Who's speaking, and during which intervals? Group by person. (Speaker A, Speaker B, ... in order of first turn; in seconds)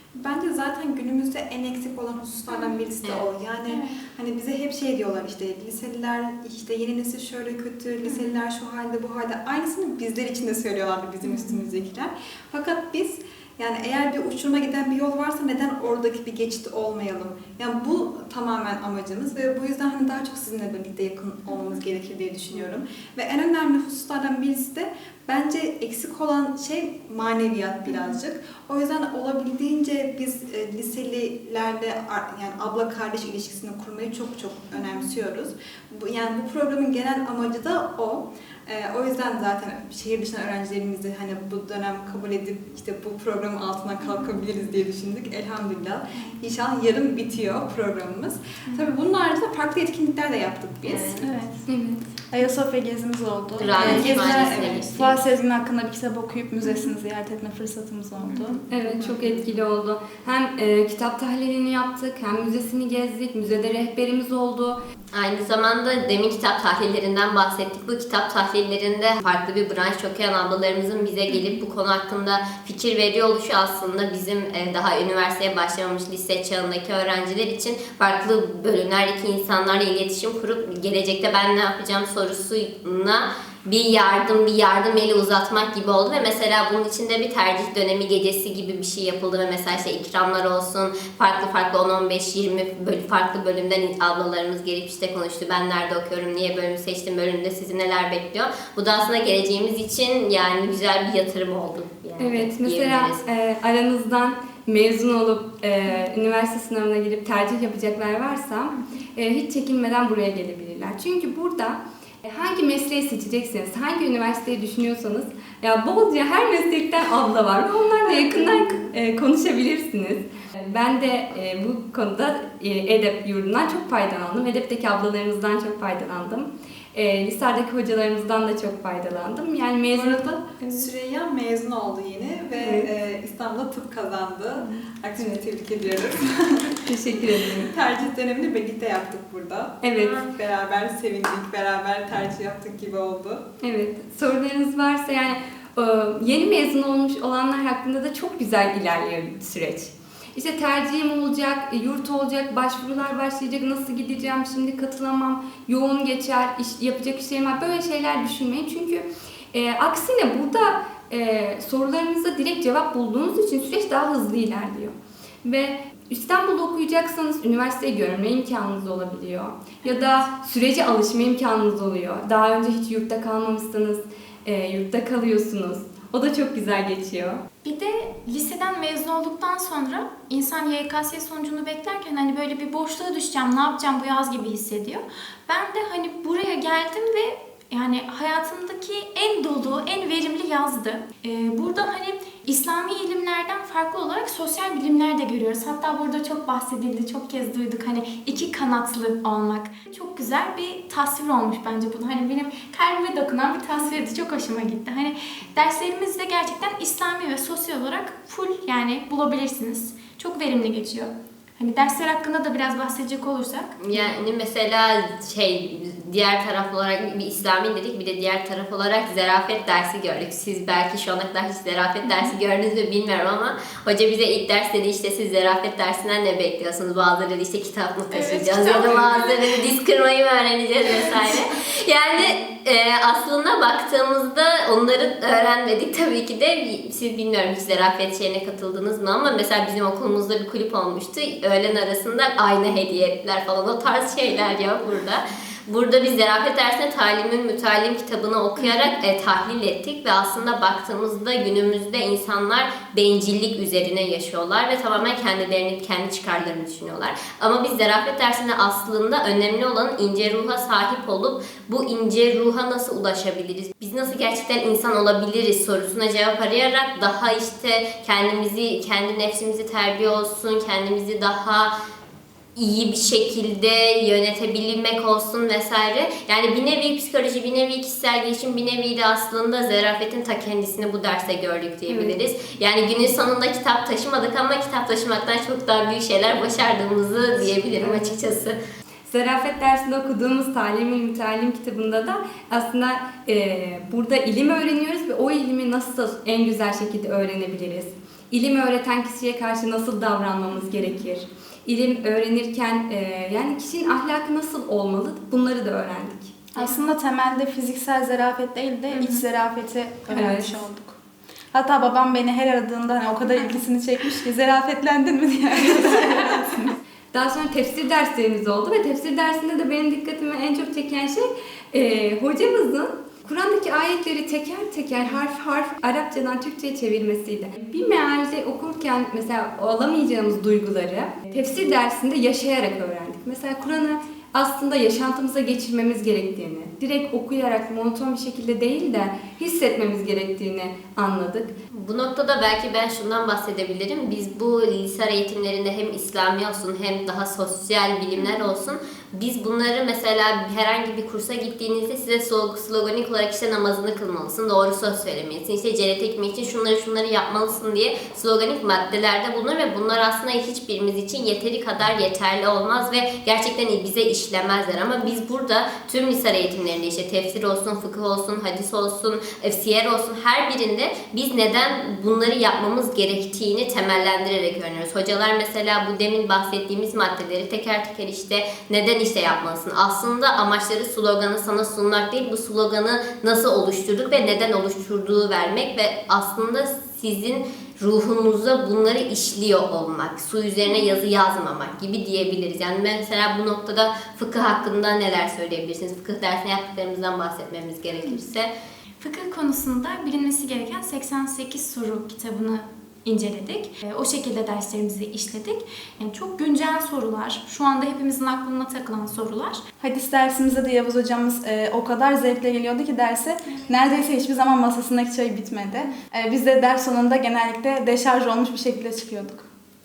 Speaker A: 0.1-51.3, 53.8-55.1, 58.9-59.4, 129.9-143.4
Speaker B: 3.7-4.0, 8.1-8.4, 11.2-11.6, 27.9-28.1, 48.7-48.9, 51.2-51.7, 53.8-54.1, 56.6-56.9, 58.3-58.6, 169.8-170.2, 177.6-213.8, 228.1-229.7, 230.9-231.4, 308.9-309.2, 390.6-390.9, 397.9-398.2, 399.0-409.6
Speaker C: 50.9-51.3, 53.6-55.1, 65.1-103.2, 213.8-271.7, 272.6-288.6, 341.7-398.5
Speaker D: 51.7-52.0, 58.7-64.8, 102.2-130.9, 132.6-132.9, 134.7-135.4, 136.9-137.7, 139.8-140.2, 143.6-177.4, 281.9-282.2, 287.5-288.2, 289.1-306.4, 310.1-310.6, 317.1-341.5
Speaker E: 52.3-58.6, 306.6-311.0, 311.5-316.8, 409.8-419.5